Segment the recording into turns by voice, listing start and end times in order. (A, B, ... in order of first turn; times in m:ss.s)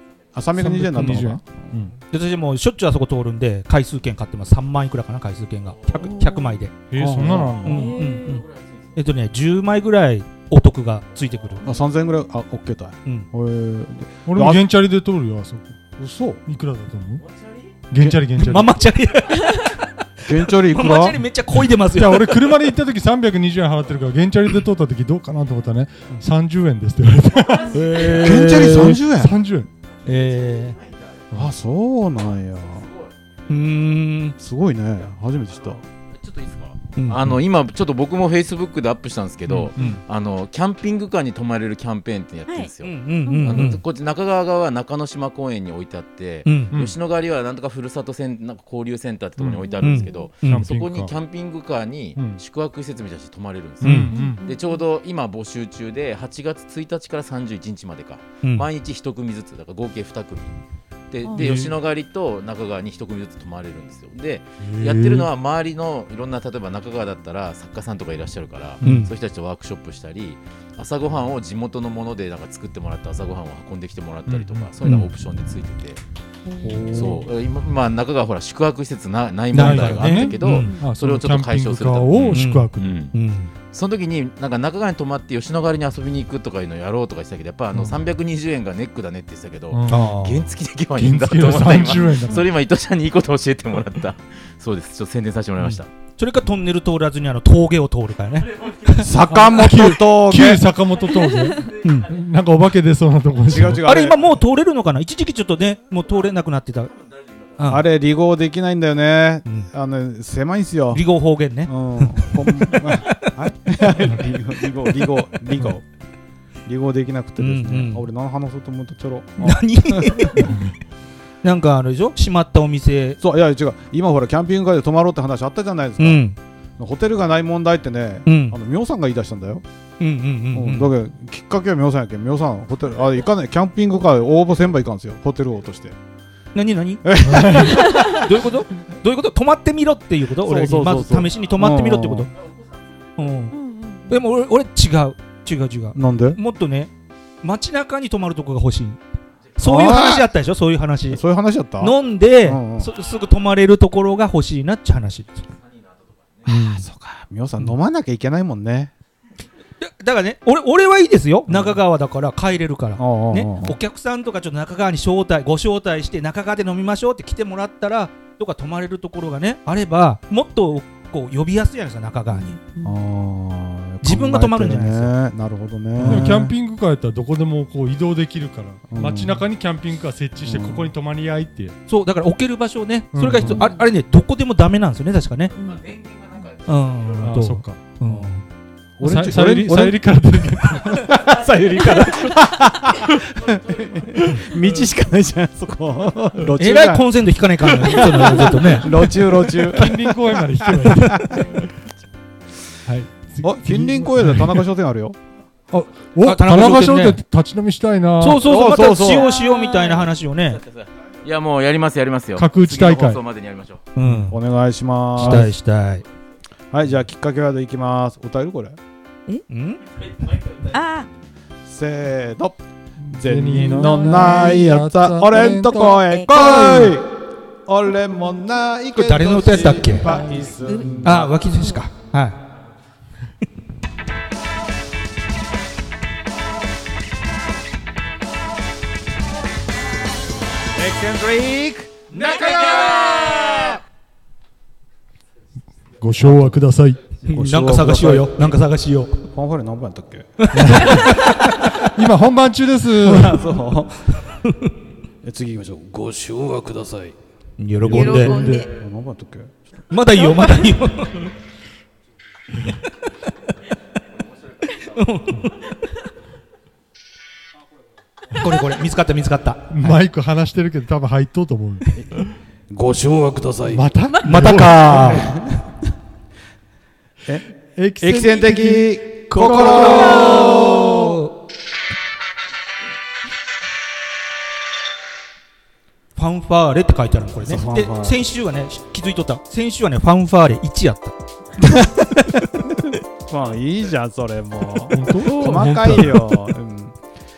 0:00.3-0:01.9 A
0:00.6-0:02.0 B
0:01.0-0:01.2 C
0:02.1-0:11.6 C
0:06.9-0:07.9 B
0:07.0-0:07.7 A
0:07.6-0:08.4 D
0:11.6-0:14.6 A
0:14.3-0:15.8 B
0:16.0-0:16.4 A
0:16.5-0:17.2 B
0:17.9-0:18.8 B
0:18.4-0:22.6 C
0:20.3-0:21.2 A
0:21.7-0:29.7 B
0:27.7-0:29.0 C
0:28.0-0:29.3 A
0:30.1-0:30.8 C
0:31.3-0:32.9 A
0:33.5-0:34.4 C
0:34.4-0:35.8 A
0:36.2-1:00.6 E
0:37.0-0:37.2 C
0:39.5-0:40.0 B
0:42.8-0:43.8 C
0:43.2-0:43.7 D
0:46.4-0:46.7 C
0:49.4-0:49.7 B
0:49.8-0:50.7 C
0:49.8-0:50.3 D
0:50.5-0:51.1 B
0:53.8-0:54.4 B
0:53.8-0:54.1 C
0:54.1-0:54.6 D
1:01.1-1:16.0 E
1:01.4-1:01.7 B
1:04.6-1:05.3 B
1:08.8-1:09.1 B
1:08.8-1:09.1 C
1:14.3-1:15.0 B
1:16.5-1:16.9 D
1:16.6-1:17.2 B
1:16.9-1:23.1 E
1:19.5-1:20.8 C
1:19.5-1:22.9 B
1:22.3-1:23.5 C
1:23.7-1:35.9 E
1:29.7-1:30.2 B
1:29.9-1:30.5 C
1:31.0-1:32.5 B
1:35.6-1:39.1 C
1:38.9-1:40.7 A
1:39.3-1:43.8 B
1:41.8-1:42.1 C
1:43.5-1:44.2 A
1:43.8-1:46.9 C
1:47.6-1:47.8 C
1:47.7-1:51.0 A
1:50.9-1:53.3 C
1:51.7-1:55.8 A
1:56.7-2:00.6 A
1:57.4-1:58.0 C
1:59.4-2:00.6 C
2:00.4-2:00.7 B
2:01.4-2:03.2 C
2:03.2-2:06.2 A
2:06.0-2:06.4 C
2:06.8-2:09.6 A
2:08.3-2:08.6 C
2:10.0-2:10.9 C
2:10.5-2:16.0 A
2:16.6-2:22.3 C
2:17.0-2:18.4 A
2:17.2-2:17.8 B
2:20.4-2:22.3 A
2:23.2-2:23.6 C
2:23.5-2:24.2 D
2:24.1-2:26.9 C
2:26.0-2:26.4 A
2:27.4-2:29.0 C
2:29.6-2:31.2 C
2:29.6-2:30.3 A
2:31.1-2:32.9 A
2:31.8-2:35.5 C
2:36.5-2:36.9 B
2:36.5-2:38.9 A
2:39.8-2:52.6 C
2:41.5-2:41.8 A
2:43.0-2:43.8 A
2:52.3-2:53.0 D
2:52.8-2:56.5 A
2:54.0-2:55.1 C
2:56.0-3:01.8 B
2:56.0-2:56.3 C
2:58.9-2:59.4 A
3:00.4-3:00.9 A
3:01.9-3:05.6 C
3:03.1-3:03.6 B
3:03.5-3:03.8 D
3:05.6-3:05.9 D
3:05.9-3:06.5 E
3:06.6-3:08.4 C
3:07.2-3:08.3 B
3:09.0-3:10.1 A
3:09.0-3:11.3 B
3:10.8-3:17.1 A
3:16.6-3:19.1 C
3:17.6-3:21.6 A
3:18.9-3:21.7 B
3:22.9-3:24.7 B
3:23.4-3:25.2 A
3:25.7-3:28.4 B
3:26.2-3:27.2 C
3:28.2-3:30.6 C
3:28.4-3:29.4 A
3:29.4-3:30.0 D
3:30.6-3:33.8 E
3:32.4-3:33.2 B
3:34.0-3:34.4 C
3:34.0-3:34.3 B
3:34.3-3:35.5 A
3:35.2-3:36.0 C
3:35.2-3:35.5 B
3:36.7-3:38.8 A
3:39.5-3:39.8 C
3:40.7-3:41.1 D
3:41.6-3:42.6 A
3:43.0-3:47.0 B
3:43.1-3:47.1 A
3:44.1-3:44.7 D
3:45.4-3:46.9 D
3:47.7-3:51.3 A
3:48.9-3:50.1 C
3:50.0-3:51.8 D
3:50.1-3:50.4 B
3:51.0-3:52.4 C
4:00.8-4:03.8 A
4:06.0-4:07.0 B
4:06.2-4:06.6 A
4:07.2-4:09.3 C
4:07.3-4:08.4 A
4:09.3-4:11.9 A
4:10.4-4:11.0 C
4:10.5-4:13.6 B
4:13.0-4:14.1 A
4:14.4-4:14.7 C
4:15.2-4:15.8 A
4:15.8-4:17.2 F
4:17.6-4:18.5 C
4:17.9-4:19.5 A
4:17.9-4:18.8 D
4:18.0-4:18.6 B
4:19.9-4:21.3 C
4:20.2-4:20.6 D
4:24.6-4:25.8 C
4:28.3-4:30.0 C
4:29.7-4:31.9 B
4:31.9-4:32.3 A
4:32.7-4:33.8 F
4:33.7-4:35.2 B
4:34.2-4:35.4 C
4:34.8-4:35.6 A
4:37.3-4:41.1 A
4:37.8-4:41.0 B
4:39.3-4:41.3 C
4:40.1-4:40.6 D
4:46.2-4:51.2 C
4:47.4-4:48.2 A
4:51.6-4:57.0 A
4:54.9-4:56.6 B